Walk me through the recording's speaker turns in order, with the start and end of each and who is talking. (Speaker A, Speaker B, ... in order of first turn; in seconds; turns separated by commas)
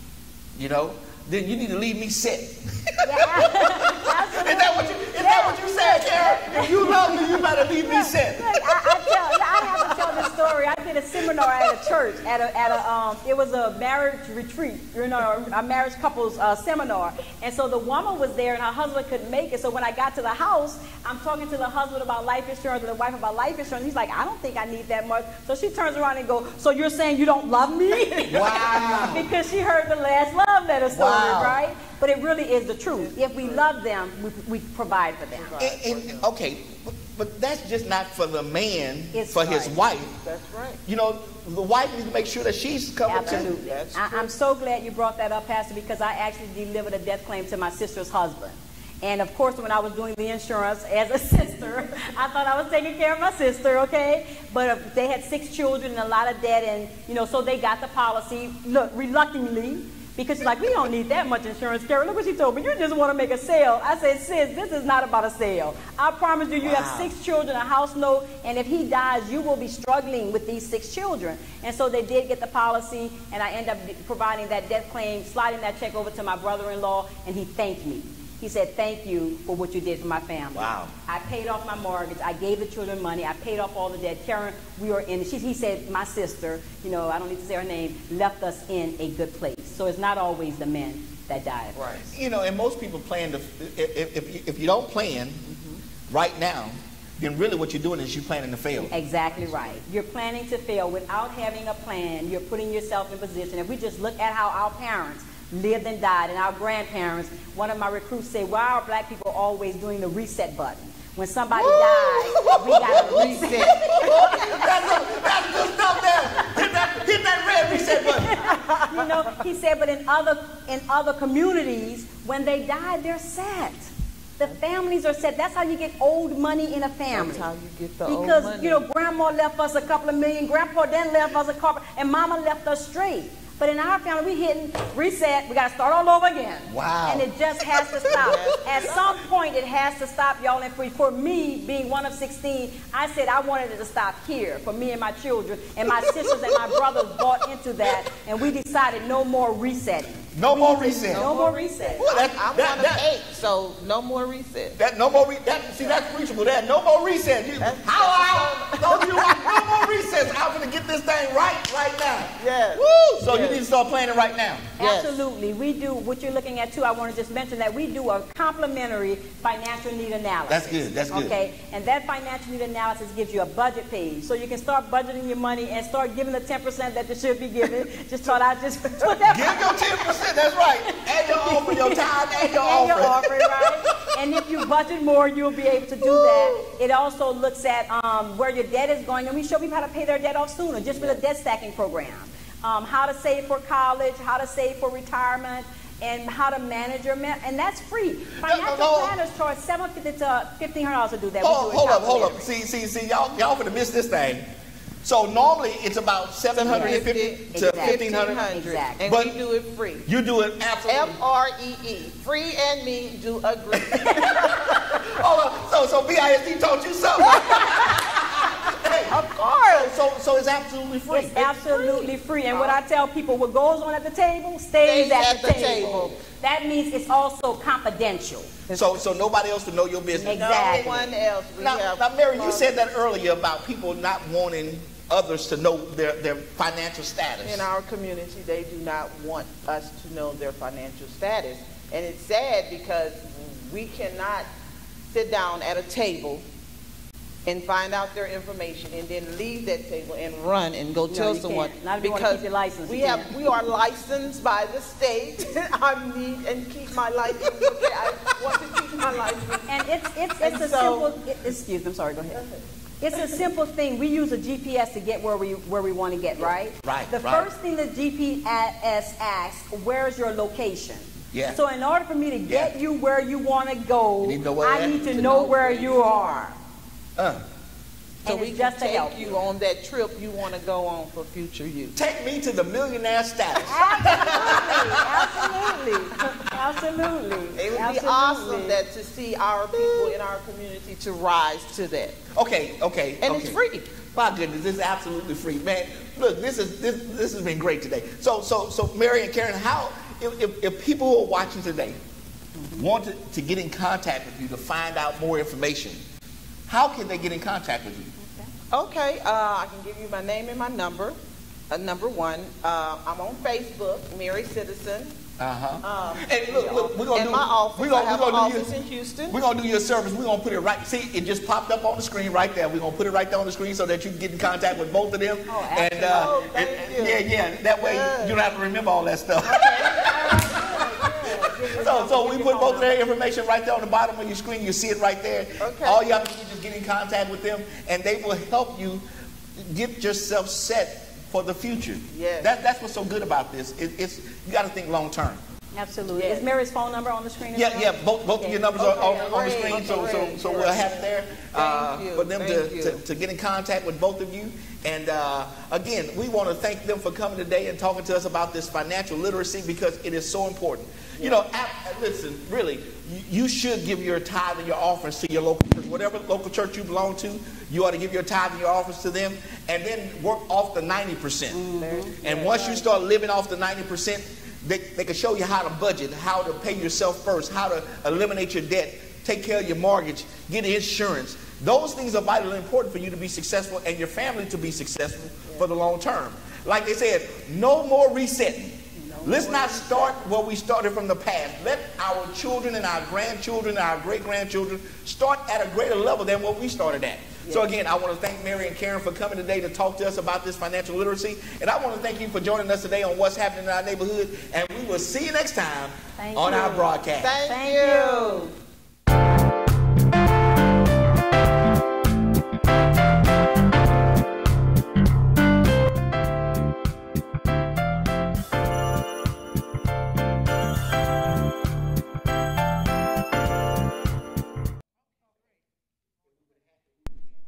Speaker A: 0.5-8.7, Speaker B: 3.0-35.5, Speaker A: 9.6-10.1, Speaker A: 28.3-29.3, Speaker A: 30.9-31.6, Speaker C: 32.9-33.7, Speaker C: 35.3-36.3, Speaker A: 35.6-40.2, Speaker B: 39.1-39.8, Speaker C: 40.2-40.8, Speaker A: 40.8-43.5, Speaker B: 43.1-92.1, Speaker C: 43.2-44.3, Speaker A: 66.6-67.1, Speaker A: 80.5-80.9, Speaker C: 91.8-92.0, Speaker A: 92.1-95.5, Speaker C: 95.5-95.8, Speaker A: 96.1-98.9, Speaker B: 98.8-115.2, Speaker C: 99.3-99.8, Speaker C: 111.5-114.8, Speaker A: 112.4-118.4, Speaker B: 116.3-116.6, Speaker B: 117.6-127.5, Speaker C: 118.4-119.1, Speaker C: 127.1-128.8, Speaker B: 128.0-152.1, Speaker A: 136.7-138.3, Speaker C: 138.1-139.1, Speaker A: 146.1-146.8, Speaker A: 150.3-151.3, Speaker C: 151.1-154.8, Speaker A: 152.0-153.1, Speaker A: 154.8-164.8, Speaker C: 157.6-159.9, Speaker C: 162.4-163.6, Speaker C: 164.8-165.2, Speaker B: 164.8-202.5, Speaker A: 170.5-171.4, Speaker A: 179.3-184.0, Speaker A: 198.3-199.1, Speaker A: 201.4-204.4, Speaker A: 205.0-208.5, Speaker C: 206.5-210.1, Speaker B: 206.7-209.0, Speaker A: 209.0-209.3, Speaker A: 210.1-211.2, Speaker C: 210.8-215.1, Speaker A: 213.8-221.5, Speaker B: 214.1-214.4, Speaker C: 217.2-218.0, Speaker B: 217.2-218.4, Speaker C: 219.1-219.9, Speaker B: 221.1-228.6, Speaker C: 221.4-222.8, Speaker C: 224.8-226.2, Speaker C: 228.7-229.0, Speaker A: 228.7-237.7, Speaker B: 230.2-231.0, Speaker C: 230.2-232.8, Speaker C: 237.4-244.5, Speaker C: 245.1-246.4, Speaker C: 247.4-259.8, Speaker B: 251.1-253.5, Speaker B: 259.7-262.5, Speaker C: 260.4-261.1, Speaker B: 263.0-276.6, Speaker A: 266.8-267.5, Speaker A: 271.3-271.6, Speaker A: 272.5-272.7, Speaker A: 274.2-275.1, Speaker C: 275.0-276.3, Speaker A: 277.2-277.4, Speaker B: 278.2-279.4, Speaker C: 278.2-282.0, Speaker A: 281.9-286.6, Speaker B: 283.6-288.8, Speaker C: 284.1-284.6, Speaker C: 287.5-292.2, Speaker B: 289.8-290.1, Speaker A: 292.3-302.0, Speaker C: 293.2-293.9, Speaker B: 302.6-302.8, Speaker A: 302.8-306.0, Speaker A: 306.7-308.1, Speaker B: 308.2-308.5, Speaker C: 308.7-311.1, Speaker C: 311.7-315.2, Speaker A: 315.4-318.7, Speaker C: 315.8-319.4, Speaker A: 319.3-339.0, Speaker B: 325.5-326.4, Speaker C: 326.1-327.2, Speaker C: 327.8-328.4, Speaker B: 329.4-333.0, Speaker C: 335.6-336.0, Speaker A: 339.6-345.4, Speaker C: 342.1-342.5, Speaker B: 345.7-349.6, Speaker C: 346.1-346.4, Speaker A: 347.5-371.6, Speaker C: 348.8-353.0, Speaker B: 371.5-372.1, Speaker C: 371.8-372.9, Speaker A: 372.2-407.4, Speaker B: 388.9-389.5, Speaker C: 389.2-390.1, Speaker B: 406.2-408.5, Speaker C: 407.2-408.5